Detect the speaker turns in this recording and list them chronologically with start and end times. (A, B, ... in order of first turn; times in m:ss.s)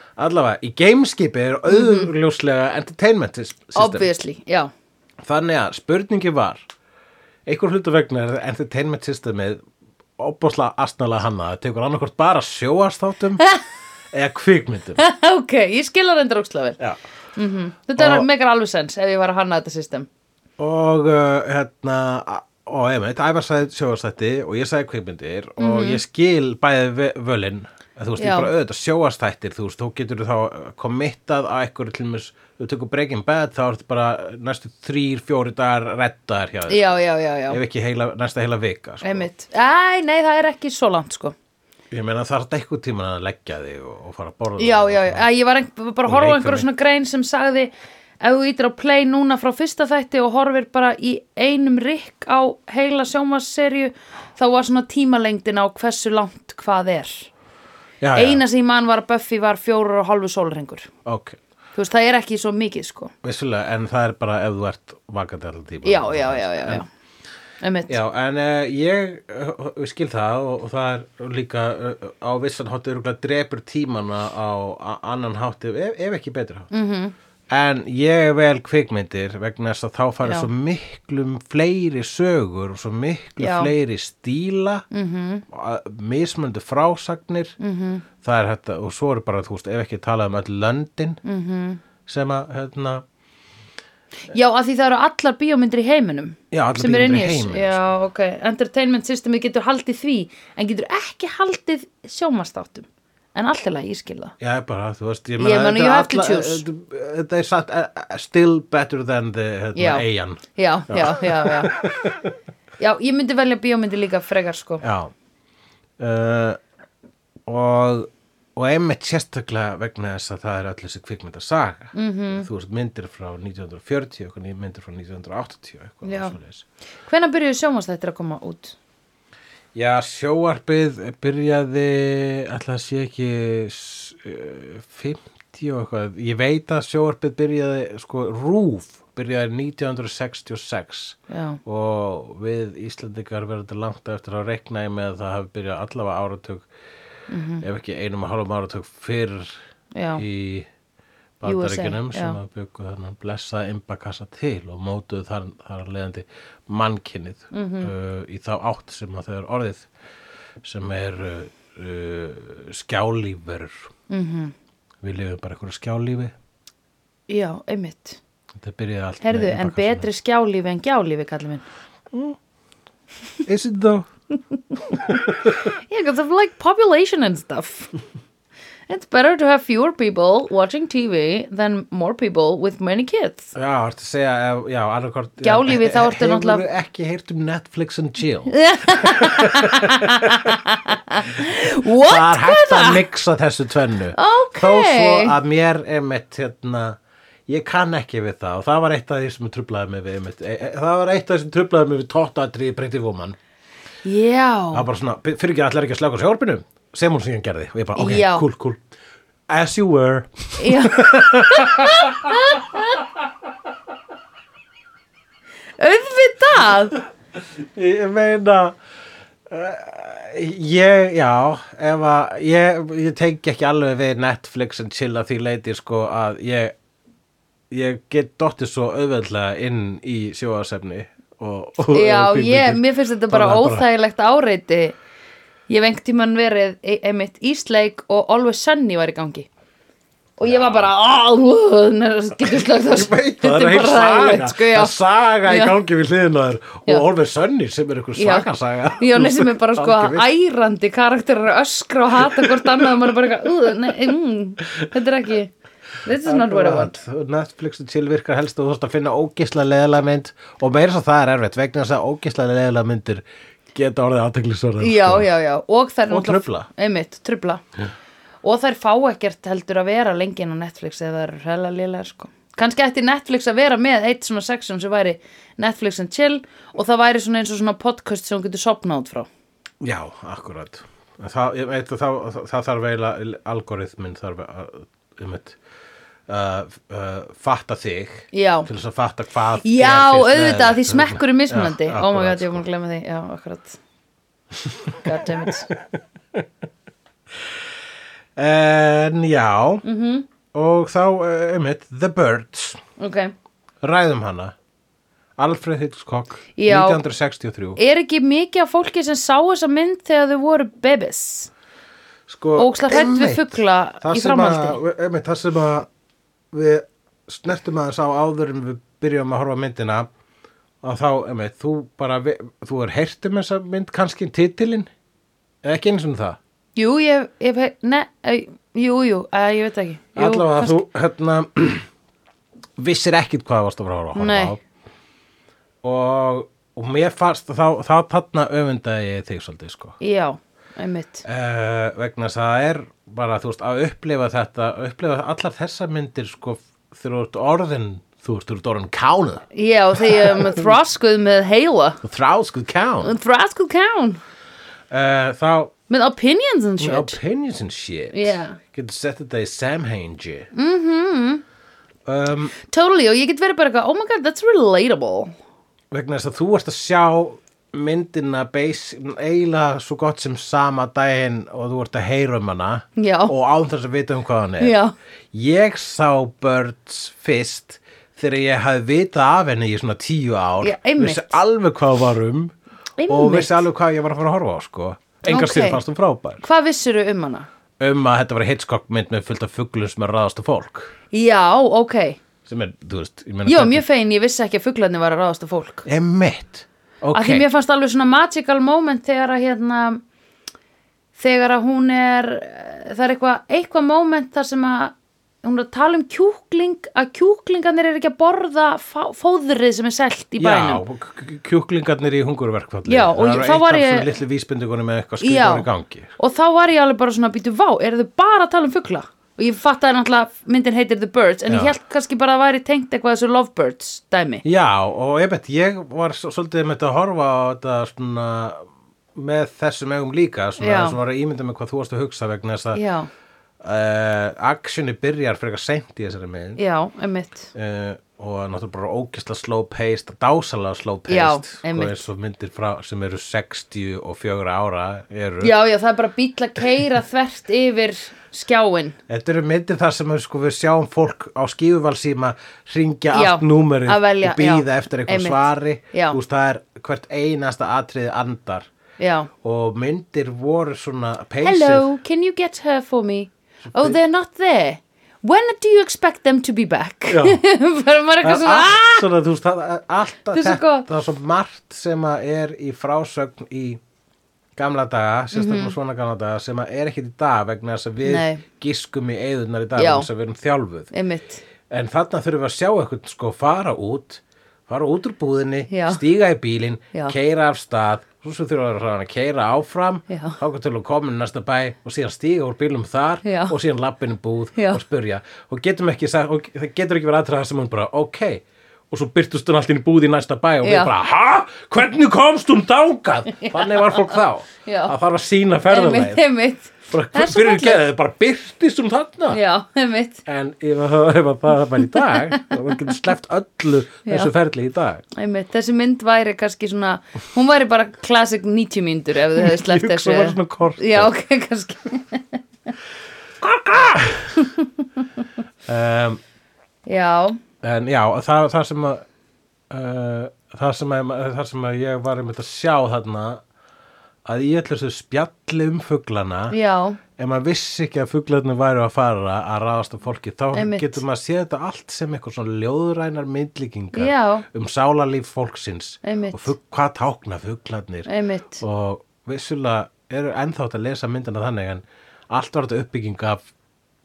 0:00.2-0:04.1 A
0:01.7-0:02.1 B
0:03.7-0:04.7 B
0:05.2-0:06.7 A
0:07.4-0:09.6 A
0:10.2-0:13.4 A
0:14.1-0:15.0 A
0:15.0-0:16.8 B
0:17.4-0:20.1 B
0:18.0-0:18.3 A
0:20.6-0:39.3 A
0:25.6-0:26.0 B
0:28.2-0:28.5 B
0:36.7-0:37.6 B
0:39.0-0:41.3 B
0:41.9-0:45.3 A
0:44.6-0:57.3 B
0:46.0-0:46.7 A
0:58.0-0:58.4 A
0:58.1-1:00.9 B
1:01.0-1:01.4 A
1:01.7-1:03.1 B
1:03.2-1:06.8 A
1:05.8-1:06.9 B
1:07.6-1:08.0 B
1:07.9-1:16.7 A
1:16.7-1:17.1 B
1:17.5-1:24.8 A
1:23.4-1:23.7 B
1:24.9-1:25.4 B
1:25.5-1:27.6 A
1:27.6-1:28.0 B
1:28.2-1:31.2 A
1:31.2-1:31.8 B
1:32.0-1:33.0 A
1:34.3-1:44.3 B
1:36.5-1:37.9 A
1:44.4-1:52.3 A
1:45.4-1:46.6 B
1:49.7-1:51.8 B
1:52.8-1:54.8 B
1:54.8-1:55.1 A
1:56.0-1:56.6 A
1:57.4-2:06.6 A
2:01.9-2:02.5 B
2:06.0-2:06.4 B
2:07.0-2:08.8 B
2:09.7-2:26.7 A
2:21.3-2:21.6 B
2:27.3-2:27.6 B
2:27.6-2:29.6 A
2:29.9-2:30.2 B
2:30.2-2:30.7 A
2:31.4-2:39.9 A
2:31.4-2:32.4 B
2:37.5-2:37.9 B
2:40.6-2:43.8 A
2:44.1-2:44.5 B
2:45.0-2:46.3 A
2:47.3-2:48.2 B
2:48.6-2:50.1 A
2:49.2-2:51.6 B
2:52.1-2:52.4 A
2:53.4-2:54.1 A
2:54.9-2:57.9 B
2:54.9-2:55.6 A
2:58.9-3:03.5 B
3:03.5-3:10.6 A
3:05.4-3:06.6 B
3:08.5-3:13.0 B
3:11.8-3:23.4 A
3:14.1-3:15.3 B
3:24.0-3:24.9 B
3:24.7-3:28.8 A
3:28.0-3:28.4 B
3:29.5-3:32.6 A
3:30.6-3:33.0 B
3:35.8-3:37.0 B
3:37.6-3:38.8 A
3:39.5-3:46.7 A
3:47.7-3:53.9 A
3:51.9-3:55.0 B
3:55.7-3:59.5 B
4:00.4-4:04.9 B
4:00.4-4:00.9 A
4:02.5-4:10.3 A
4:05.5-4:05.7 B
4:08.2-4:16.9 B
4:12.2-4:12.7 A
4:16.2-4:25.3 A
4:24.8-4:27.6 B
4:26.1-4:26.7 A
4:28.4-4:39.3 B
4:39.8-4:45.6 A
4:46.3-4:52.6 A
4:48.3-4:48.7 B
4:49.6-4:53.8 B
4:54.6-4:55.0 A
4:55.0-4:55.7 B
4:58.4-4:59.8 A
4:59.8-5:00.3 B
5:00.5-5:02.8 A
5:03.0-5:03.3 B
5:03.8-5:04.5 A
5:05.4-5:07.8 A
5:06.6-5:07.0 B
5:07.8-5:11.5 B
5:12.3-5:15.9 A
5:12.6-5:14.8 B
5:16.5-5:20.1 A
5:20.8-5:24.9 A
5:25.6-5:26.4 A
5:26.8-5:30.8 B
5:30.1-5:31.9 A
5:32.8-5:34.6 A
5:34.1-5:34.6 B
5:35.8-5:40.0 A
5:40.0-5:41.2 B
5:41.2-5:49.4 A
5:49.5-5:52.0 B
5:50.0-5:50.6 A
5:52.0-5:53.1 A
5:53.0-5:54.2 B
5:54.9-5:55.7 A
5:55.9-5:57.2 B
5:56.8-6:00.5 A
5:58.1-5:58.6 B
6:00.5-6:01.4 B
6:02.0-6:02.5 A
6:02.7-6:05.3 B
6:05.9-6:14.8 A
6:13.0-6:13.3 B
6:14.6-6:14.9 B
6:15.3-6:22.5 A
6:20.6-6:21.4 B
6:23.0-6:23.6 B
6:23.1-6:26.4 A
6:25.3-6:25.8 B
6:26.4-6:27.5 B
6:27.8-6:30.9 A
6:31.1-6:32.2 B
6:32.4-6:33.8 A
6:33.4-6:35.8 B
6:35.8-6:37.5 A
6:37.1-6:40.0 B
6:41.2-6:50.8 B
6:50.4-6:56.1 A
6:52.8-6:54.2 B
6:55.2-7:04.4 B
7:01.5-7:01.7 A
7:04.4-7:12.8 A
7:10.6-7:11.0 B
7:12.7-7:13.1 B
7:13.6-7:16.6 A
7:16.6-7:17.5 B
7:17.5-7:25.5 A
7:21.1-7:22.1 B
7:25.4-7:29.0 B
7:29.1-7:38.7 A
7:33.1-7:36.2 B
7:39.0-7:39.3 B
7:39.4-7:41.9 A
7:41.4-7:49.0 B
7:43.7-7:44.0 A
7:47.1-7:47.4 A
7:48.2-7:53.8 A
7:50.3-7:50.9 B
7:54.6-8:00.9 A
7:55.3-7:55.7 B
7:58.0-7:58.4 B
7:59.8-8:00.1 B
8:00.9-8:01.4 B
8:01.7-8:26.2 A
8:05.7-8:06.0 B
8:10.1-8:10.4 B
8:13.2-8:13.5 B
8:14.6-8:14.8 B
8:20.6-8:20.9 B
8:23.3-8:24.1 B
8:24.6-8:24.9 B
8:25.7-8:27.8 B
8:26.9-8:29.4 A
8:29.3-8:30.2 B
8:30.2-8:35.0 A
8:32.1-8:32.4 B
8:34.0-8:34.3 B
8:35.1-8:42.4 B
8:39.3-8:41.1 A
8:43.4-8:44.5 A
8:45.6-8:46.2 A
8:46.8-8:47.4 B
8:47.6-8:49.0 A
8:49.7-8:53.4 A
8:54.2-8:56.6 A
8:56.5-8:57.0 B
8:57.2-9:08.1 A
9:00.5-9:01.0 B
9:03.9-9:04.4 B
9:06.0-9:06.5 B
9:08.0-9:08.6 B
9:08.6-9:13.4 A